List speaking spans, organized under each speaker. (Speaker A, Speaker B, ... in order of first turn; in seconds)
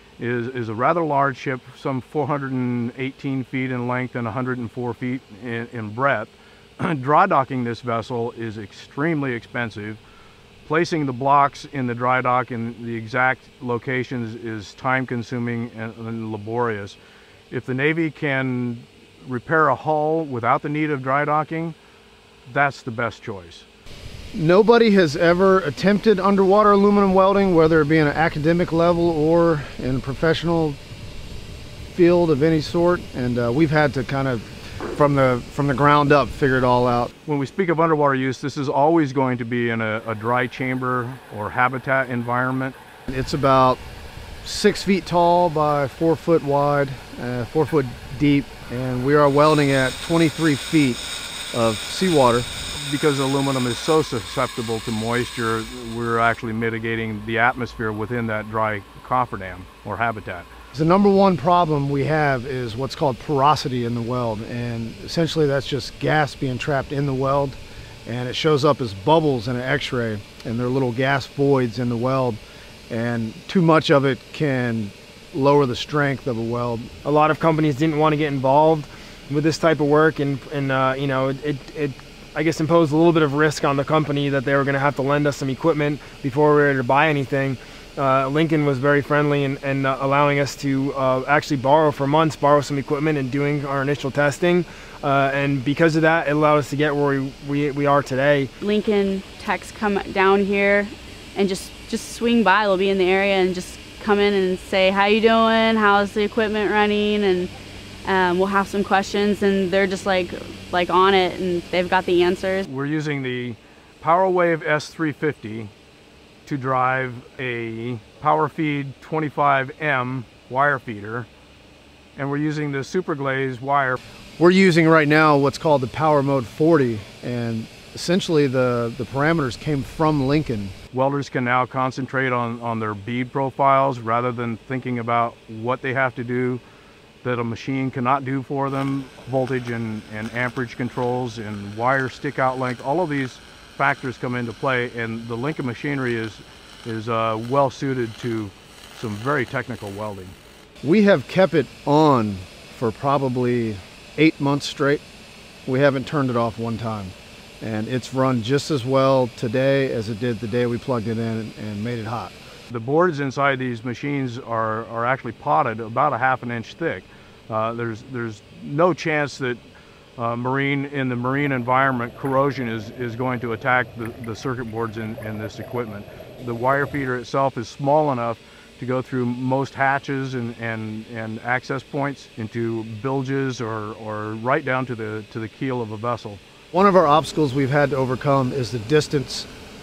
Speaker A: 0.2-10.0, 10.6-17.0, 17.5-21.8, 22.5-23.7, 37.3-42.8, 52.8-60.5, 112.7-115.7, 116.5-121.3, 122.2-124.0, 130.9-136.6, 137.2-150.3, 162.7-169.6, 170.2-186.4
Speaker B: 24.3-30.8, 31.9-37.1, 43.1-43.8, 44.4-51.0, 51.5-52.5, 60.7-76.9, 124.4-130.8, 150.8-155.0, 155.7-162.3, 186.7-189.5
Speaker C: 77.0-98.5
Speaker D: 98.6-107.5, 108.0-112.7